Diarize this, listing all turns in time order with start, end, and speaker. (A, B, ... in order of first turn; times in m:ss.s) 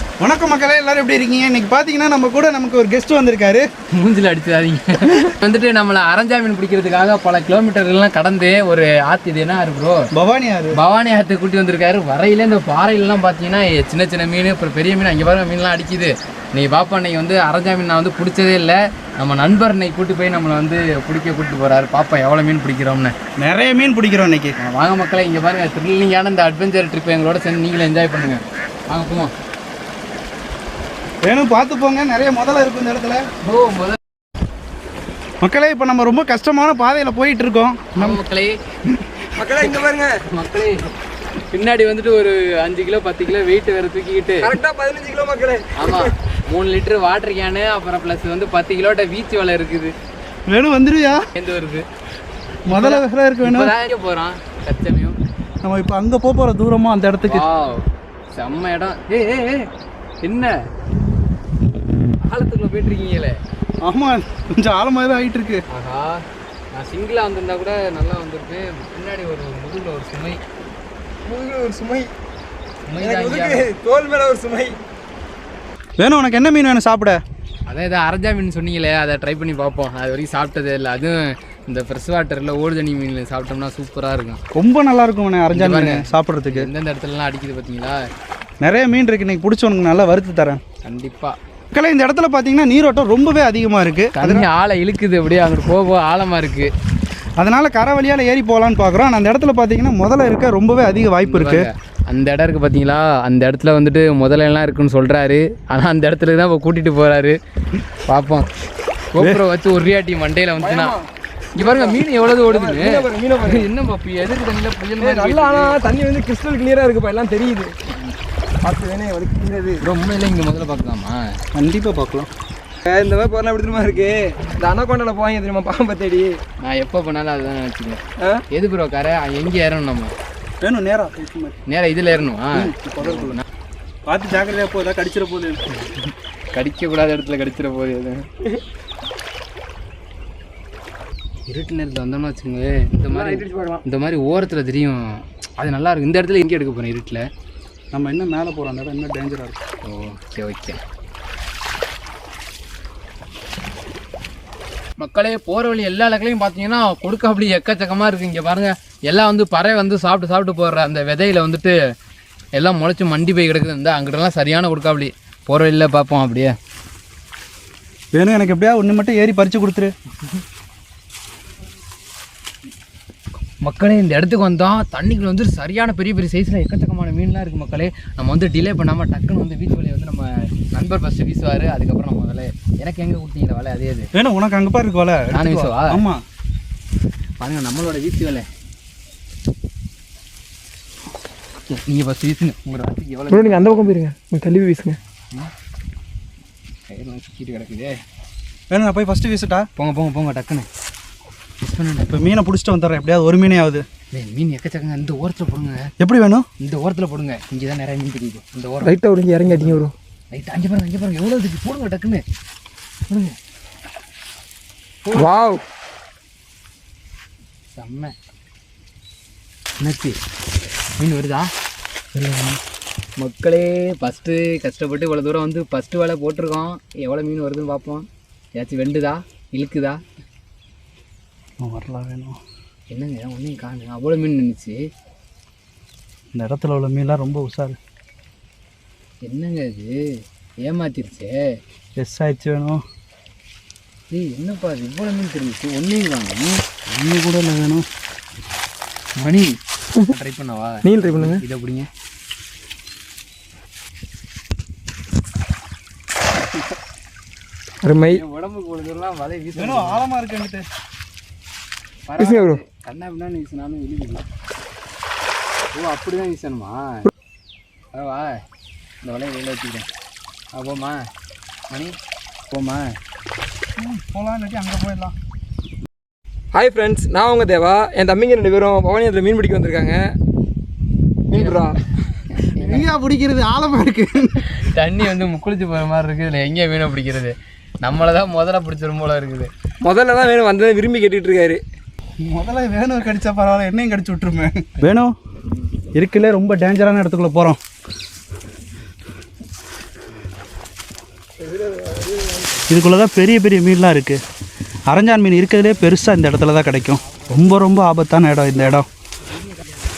0:00.2-0:03.6 A
0:03.9-0:10.1 B
0:10.1-0:10.8 A
0:10.7-0:23.1 B
0:23.4-0:24.5 A
0:24.6-0:29.3 B
0:31.2-0:33.2 A
0:33.4-0:34.0 B
0:35.4-0:38.2 A
0:38.0-0:38.6 B
0:39.4-0:40.1 C
0:40.2-0:40.9 B
0:41.5-0:44.5 B
0:44.4-0:46.1 C
0:45.8-0:49.9 B
0:50.5-0:51.2 A
0:51.3-0:51.8 B
0:52.7-0:53.7 A
0:52.7-0:55.2 B
0:55.6-0:57.4 A
0:57.2-0:59.7 B
1:00.2-1:00.5 B
1:02.2-1:03.4 B
1:03.8-1:05.6 A
1:05.7-1:10.4 B
1:11.2-1:12.1 C
1:12.9-1:13.7 B
1:13.0-1:14.8 C
1:16.0-1:17.2 A
1:17.7-1:24.4 B
1:24.5-1:26.7 A
1:25.5-1:28.0 B
1:28.6-1:30.6 A
1:30.8-1:31.4 B
1:31.7-1:34.5 A
1:34.1-1:36.7 B
1:37.4-1:41.7 A
1:41.2-1:47.3 B
1:48.0-1:48.5 B
1:49.2-1:51.0 B
1:50.6-1:53.7 C
1:51.5-1:55.8 B
1:55.0-1:57.7 C
1:58.6-1:59.8 C
1:59.8-2:01.2 B
2:01.5-2:02.3 A
2:02.8-2:06.4 C
2:06.6-2:10.1 B
2:10.6-2:11.6 A
2:11.7-2:13.4 B
2:12.5-2:13.4 A
2:14.1-2:15.6 A
2:16.5-2:18.2 B
2:21.5-2:27.2 B
2:23.1-2:23.8 C
2:27.9-2:29.6 A
2:29.9-2:30.8 B
2:35.0-2:41.7 B
2:42.6-2:46.5 B
2:48.1-2:49.9 A
2:53.6-3:04.1 B
3:04.1-3:06.2 A
3:05.3-3:06.0 B
3:07.4-3:08.5 B
3:11.7-3:13.9 B
3:13.3-3:15.0 C
3:16.9-3:18.0 B
3:18.7-3:19.6 A
3:19.8-3:20.7 B
3:21.6-3:22.3 B
3:22.1-3:23.8 A
3:24.1-3:25.9 B
3:26.0-3:26.4 A
3:26.6-3:32.2 B
3:28.8-3:29.9 C
3:33.1-3:33.3 B
3:35.0-3:35.3 B
3:35.1-3:35.6 C
3:37.7-3:38.1 B
3:39.8-3:40.2 B
3:41.0-3:41.5 B
3:42.1-3:42.6 A
3:43.2-3:48.0 B
3:48.6-3:50.0 B
3:51.6-3:52.4 A
3:52.9-3:54.8 B
3:56.3-3:57.8 A
3:59.2-3:59.9 B
4:00.6-4:01.4 B
4:02.0-4:02.8 A
4:04.1-4:06.7 B
4:06.8-4:07.8 A
4:09.2-4:11.9 B
4:10.8-4:11.4 C
4:17.8-4:18.2 C
4:18.0-4:20.1 B
4:19.6-4:20.6 A
4:22.1-4:24.2 B
4:22.2-4:22.6 C
4:25.7-4:27.0 B
4:27.9-4:28.4 B
4:29.0-4:29.9 B
4:30.5-4:31.1 B
4:31.7-4:32.0 B
4:32.5-4:32.9 B
4:33.8-4:35.1 A
4:36.5-4:40.1 C
4:41.3-4:41.8 C
4:41.3-4:42.9 B
4:42.6-4:44.4 A
4:44.4-4:49.5 B
4:49.8-4:51.6 C
4:52.2-4:55.1 A
4:55.9-4:57.6 A
5:01.4-5:02.6 C
5:02.7-5:04.2 A
5:04.9-5:08.9 A
5:07.0-5:07.6 B
5:09.3-5:09.8 B